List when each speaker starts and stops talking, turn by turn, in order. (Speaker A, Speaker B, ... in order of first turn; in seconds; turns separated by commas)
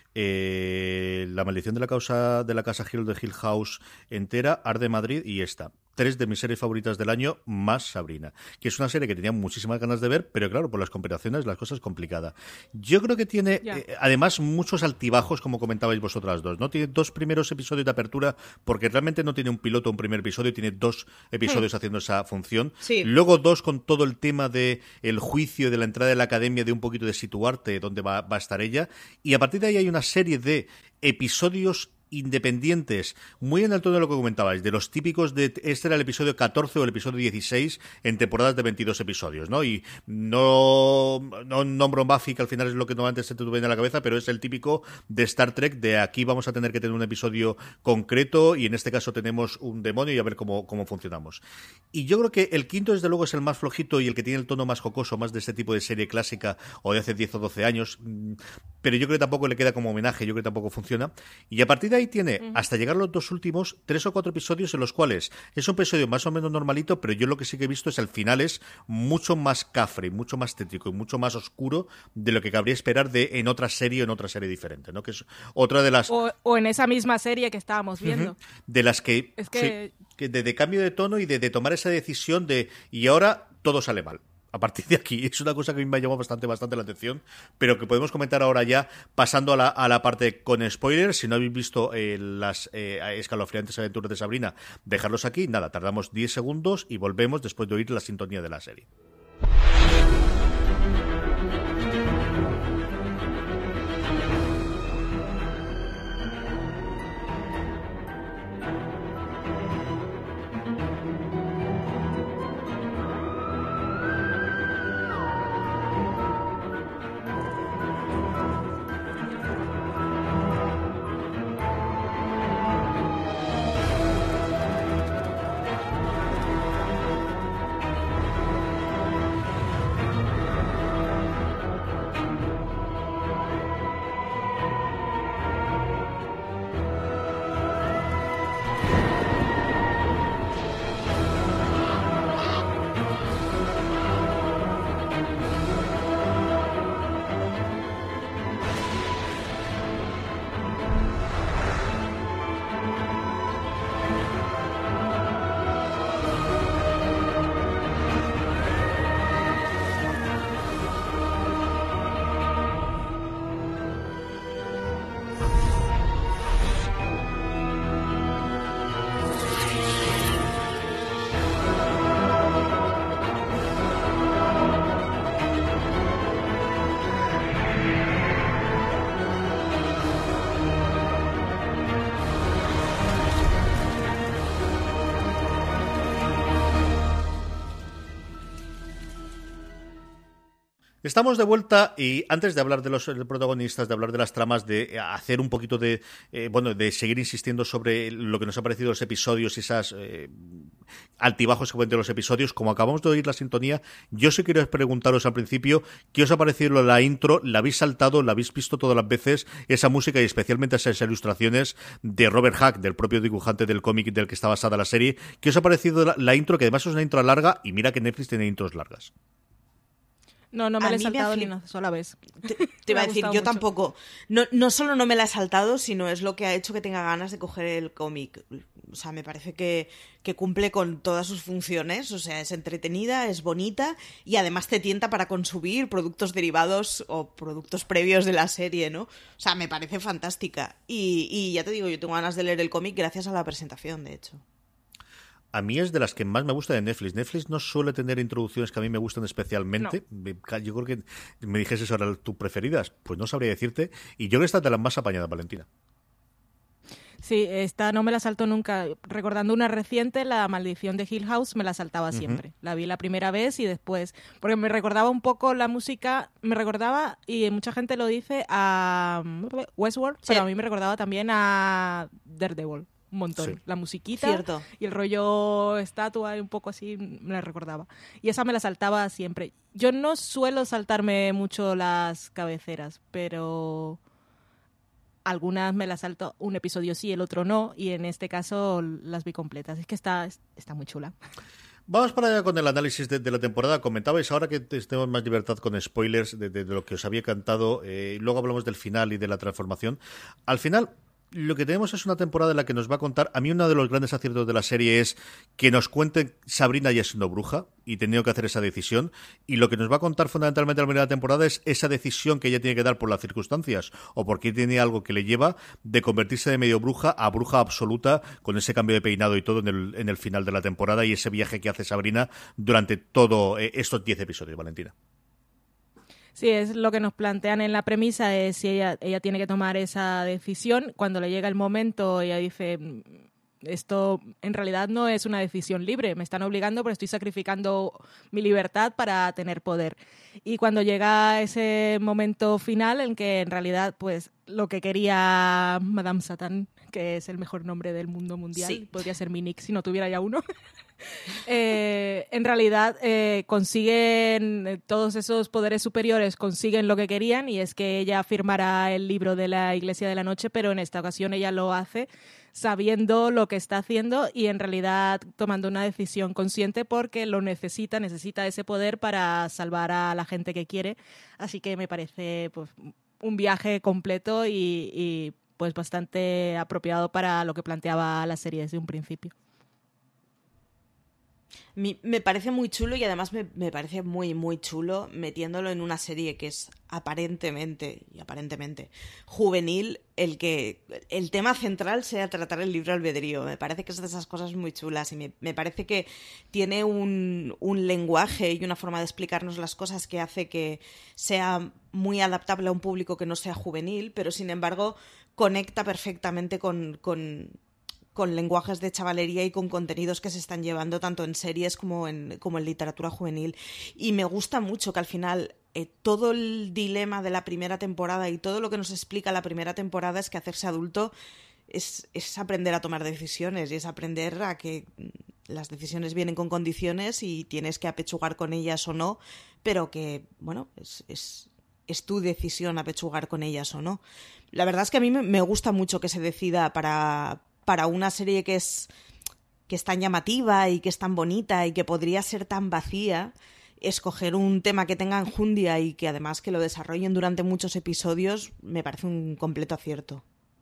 Speaker A: 0.1-51.4, Speaker B: 22.8-23.1, Speaker A: 51.9-76.1, Speaker C: 76.1-78.3, Speaker A: 78.0-98.9, Speaker C: 79.4-79.9, Speaker A: 191.0-200.7, Speaker A: 201.2-219.1, Speaker C: 220.5-223.6, Speaker B: 220.8-221.5, Speaker B: 222.8-244.4, Speaker A: 245.5-255.7, Speaker C: 257.2-284.0, Speaker A: 262.1-262.4, Speaker B: 274.2-274.7, Speaker C: 285.2-291.1, Speaker A: 291.9-324.9, Speaker C: 326.4-350.4, Speaker B: 348.6-348.8, Speaker C: 351.4-379.3, Speaker B: 381.8-407.6, Speaker B: 408.1-421.1, Speaker B: 421.7-434.0, Speaker B: 434.5-438.9, Speaker B: 439.7-450.2